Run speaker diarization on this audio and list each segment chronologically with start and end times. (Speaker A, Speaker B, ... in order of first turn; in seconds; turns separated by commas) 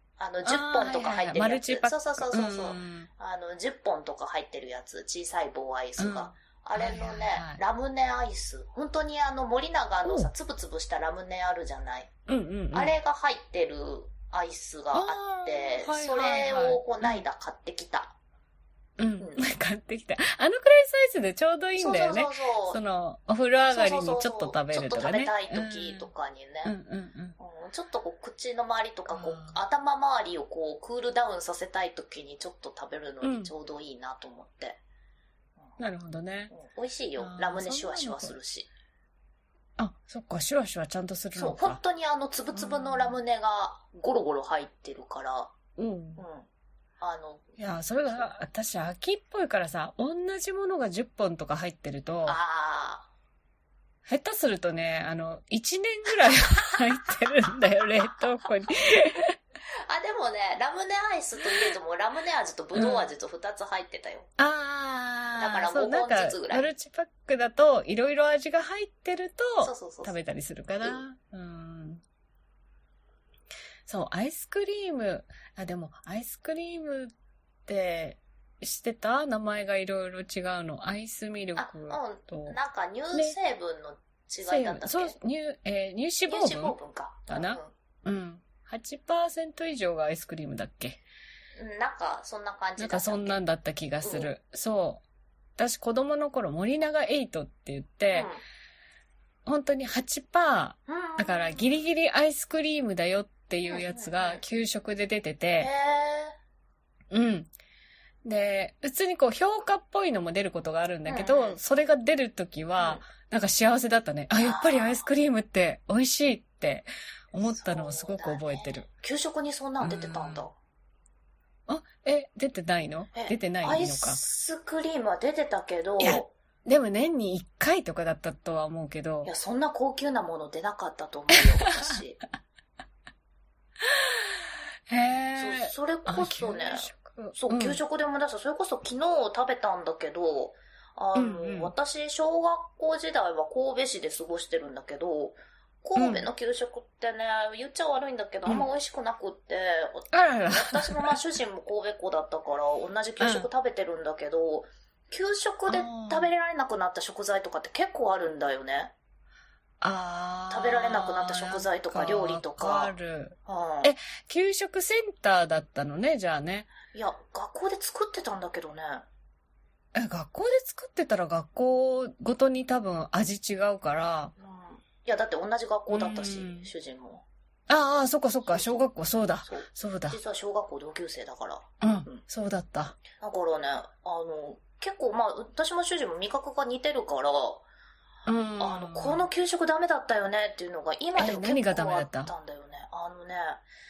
Speaker A: 0.2-12.1, Speaker B: 0.4-3.1, Speaker B: 6.0-7.6, Speaker B: 10.0-10.3, Speaker B: 12.3-12.9, Speaker A: 12.7-18.1, Speaker B: 14.9-17.2, Speaker B: 19.0-26.1, Speaker A: 19.2-19.5, Speaker A: 21.8-22.8, Speaker A: 23.7-26.7, Speaker B: 26.6-27.4, Speaker A: 27.4-34.8, Speaker B: 29.1-29.6, Speaker B: 33.2-33.5, Speaker B: 35.8-36.5, Speaker A: 36.5-38.7, Speaker B: 37.2-38.4, Speaker B: 39.8-41.8, Speaker A: 41.4-45.5, Speaker B: 42.5-43.2, Speaker B: 45.8-46.2, Speaker A: 46.2-46.5, Speaker A: 47.0-48.3, Speaker B: 47.6-52.4, Speaker A: 52.2-53.1, Speaker B: 54.0-59.4, Speaker A: 59.9-64.3, Speaker B: 62.7-63.1, Speaker B: 64.4-72.0, Speaker A: 65.4-66.7, Speaker A: 69.6-70.1, Speaker B: 73.9-77.1, Speaker B: 77.7-82.6, Speaker A: 81.6-85.2, Speaker B: 84.5-86.8, Speaker A: 86.3-87.7, Speaker B: 87.3-91.0, Speaker A: 91.6-93.4, Speaker B: 92.8-95.0, Speaker A: 94.0-94.3, Speaker B: 95.6-98.3, Speaker A: 98.1-98.4, Speaker B: 99.4-105.7, Speaker A: 100.9-101.8, Speaker A: 103.7-104.4, Speaker A: 105.6-106.3, Speaker B: 107.1-107.5, Speaker B: 108.2-118.9, Speaker A: 111.0-111.6, Speaker A: 112.8-113.1, Speaker A: 114.4-115.1, Speaker A: 117.4-120.5, Speaker B: 119.8-120.5, Speaker B: 121.7-124.2, Speaker A: 123.1-126.3, Speaker B: 126.0-129.3, Speaker A: 129.2-132.2, Speaker B: 131.7-132.0, Speaker B: 133.8-137.8, Speaker A: 135.3-158.9, Speaker B: 141.1-141.7, Speaker B: 146.0-146.3, Speaker B: 150.1-151.2, Speaker B: 153.2-153.5, Speaker B: 155.7-156.3, Speaker B: 159.8-166.7, Speaker A: 160.5-162.9, Speaker A: 163.4-163.9, Speaker A: 166.9-169.0, Speaker B: 169.9-174.3, Speaker A: 174.4-177.2, Speaker B: 175.9-176.7, Speaker B: 177.7-180.2, Speaker A: 178.5-178.9, Speaker A: 179.4-182.2, Speaker B: 181.8-183.0, Speaker A: 183.2-187.6, Speaker B: 188.2-189.2, Speaker A: 188.6-193.6, Speaker B: 191.2-192.3